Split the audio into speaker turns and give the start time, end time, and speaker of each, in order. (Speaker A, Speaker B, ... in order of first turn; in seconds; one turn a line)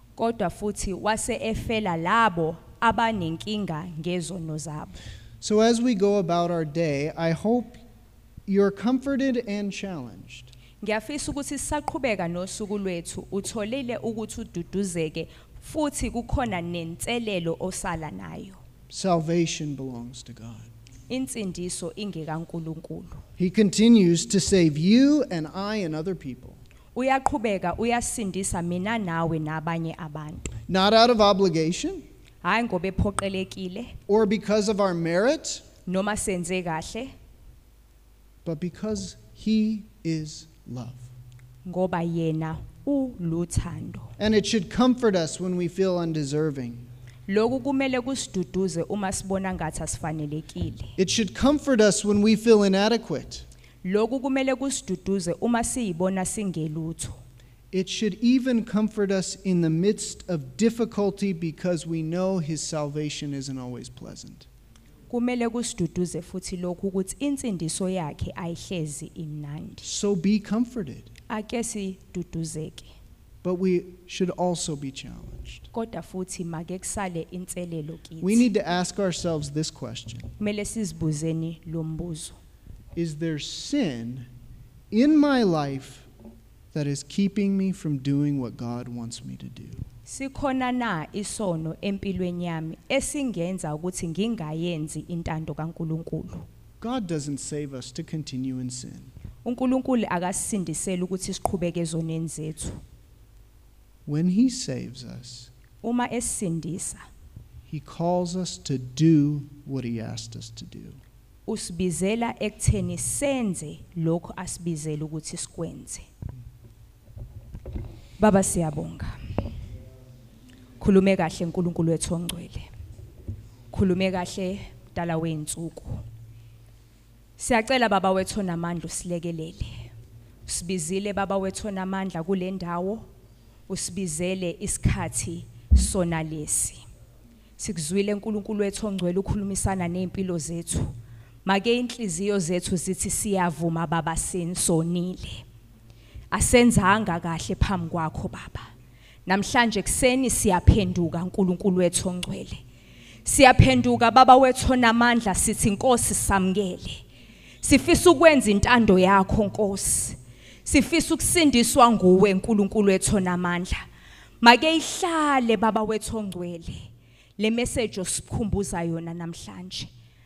Speaker A: 0.1-5.0
Speaker B: 5.4-7.8
Speaker B: 8.5-10.5
Speaker A: 10.8-18.6
Speaker B: 18.9-20.7
Speaker A: 21.1-23.2
Speaker B: 23.4-26.6
Speaker A: 26.9-30.5
Speaker B: 30.7-32.0
Speaker A: 32.4-33.9
Speaker B: 34.1-35.6
Speaker A: 35.9-37.1
Speaker B: 38.4-41.1
Speaker A: 41.6-44.1
Speaker B: 44.2-46.9
Speaker A: 47.3-50.9
Speaker B: 51.0-53.4
Speaker A: 53.8-57.2
Speaker B: 57.7-64.5
Speaker A: 65.1-69.9
Speaker B: 69.8-71.1
Speaker A: 71.3-72.9
Speaker B: 73.4-75.7
Speaker A: 75.7-78.4
Speaker B: 78.2-80.3
Speaker A: 80.4-82.3
Speaker B: 82.9-84.3
Speaker B: 84.9-86.0
Speaker B: 86.7-89.8
Speaker A: 90.0-96.5
Speaker B: 96.8-99.1
Speaker A: 99.4-102.8
Speaker B: 104.0-105.5
Speaker A: 105.8-107.0
Speaker B: 107.7-111.0
Speaker A: 111.5-116.0
Speaker A: 118.2-119.1
Speaker A: 120.8-122.7
Speaker A: 123.7-126.0
Speaker A: 127.4-129.9
Speaker A: 130.4-133.0
Speaker A: 133.7-136.8
Speaker A: 137.6-140.9
Speaker A: 141.4-145.4
Speaker A: 146.3-148.7
Speaker A: 149.3-152.6
Speaker A: 153.2-157.0
Speaker A: 157.6-163.8
Speaker A: 164.4-169.9